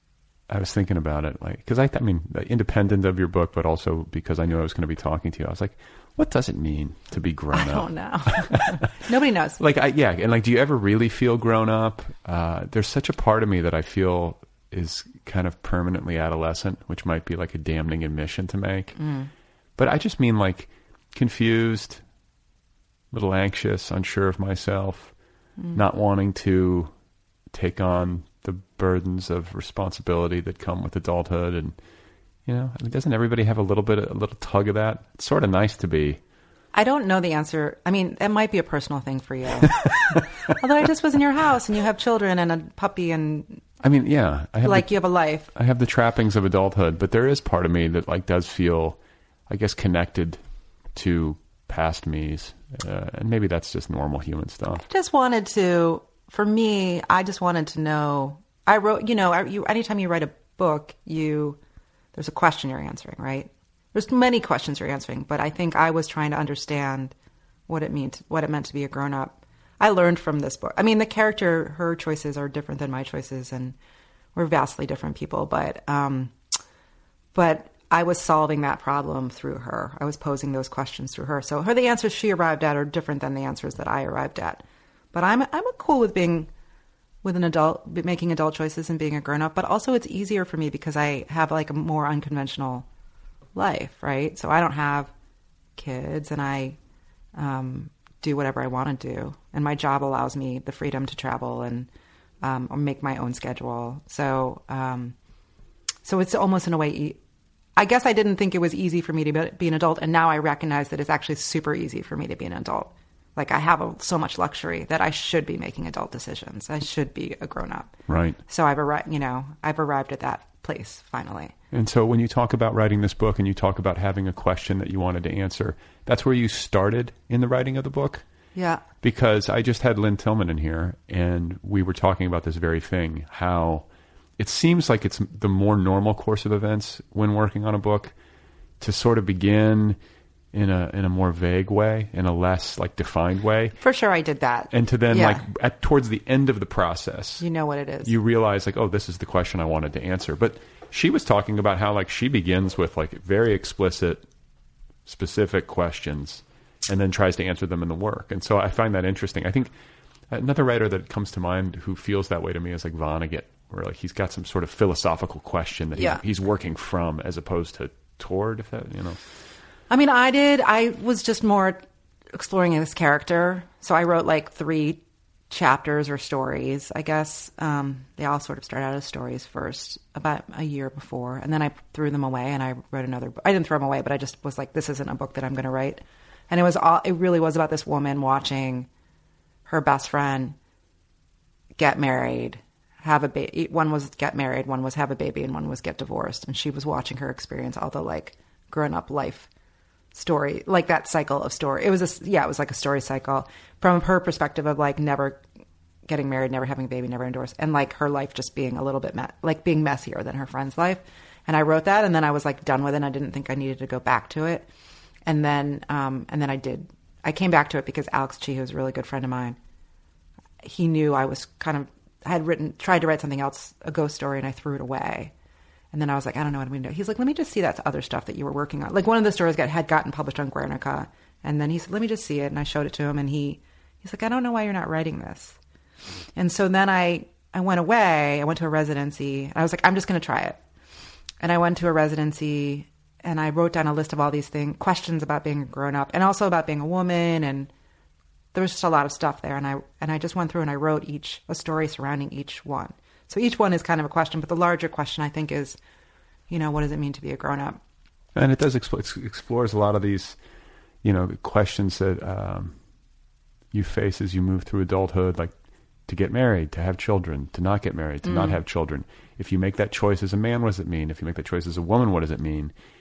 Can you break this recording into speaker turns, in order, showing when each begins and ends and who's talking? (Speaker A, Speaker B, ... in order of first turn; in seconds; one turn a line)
Speaker A: 0.5-8.8
Speaker B: 7.5-9.6
Speaker A: 9.6-18.9
Speaker B: 19.0-19.3
Speaker A: 19.8-22.0
Speaker A: 23.1-25.1
Speaker B: 25.6-25.8
Speaker A: 25.7-26.9
Speaker A: 27.5-31.8
Speaker A: 32.5-36.2
Speaker B: 36.7-43.6
Speaker A: 43.8-45.0
Speaker B: 44.6-45.5
Speaker A: 45.5-50.4
Speaker A: 50.9-54.9
Speaker B: 54.8-61.6
Speaker B: 62.1-67.1
Speaker B: 67.7-73.8
Speaker B: 74.3-76.3
Speaker B: 77.3-86.5
Speaker B: 87.2-92.9
Speaker B: 93.5-95.1
Speaker B: 95.8-96.8
Speaker B: 97.3-101.9
Speaker B: 102.4-105.2
Speaker B: 106.0-107.2
Speaker B: 107.8-121.5
Speaker A: 118.1-118.4
Speaker A: 121.7-128.2
Speaker B: 128.6-128.8
Speaker A: 129.0-133.9
Speaker A: 134.4-138.1
Speaker A: 138.8-140.0
Speaker A: 140.5-143.8
Speaker B: 143.8-145.4
Speaker A: 144.7-147.4
Speaker B: 147.4-148.2
Speaker A: 148.0-154.2
Speaker A: 155.1-159.7
Speaker A: 160.3-169.2
Speaker B: 166.0-166.2
Speaker B: 169.9-188.9
Speaker B: 189.7-190.6
Speaker B: 191.8-199.5
Speaker B: 200.1-205.4
Speaker B: 206.1-214.7
Speaker B: 215.3-219.6
Speaker B: 220.6-225.3
Speaker B: 225.9-235.6
Speaker B: 236.4-240.6
Speaker B: 241.4-247.7
Speaker B: 248.5-255.8
Speaker B: 256.5-257.8
Speaker A: 258.4-260.4
Speaker A: 261.0-262.8
Speaker A: 263.7-265.5
Speaker A: 266.1-272.7
Speaker B: 268.2-268.6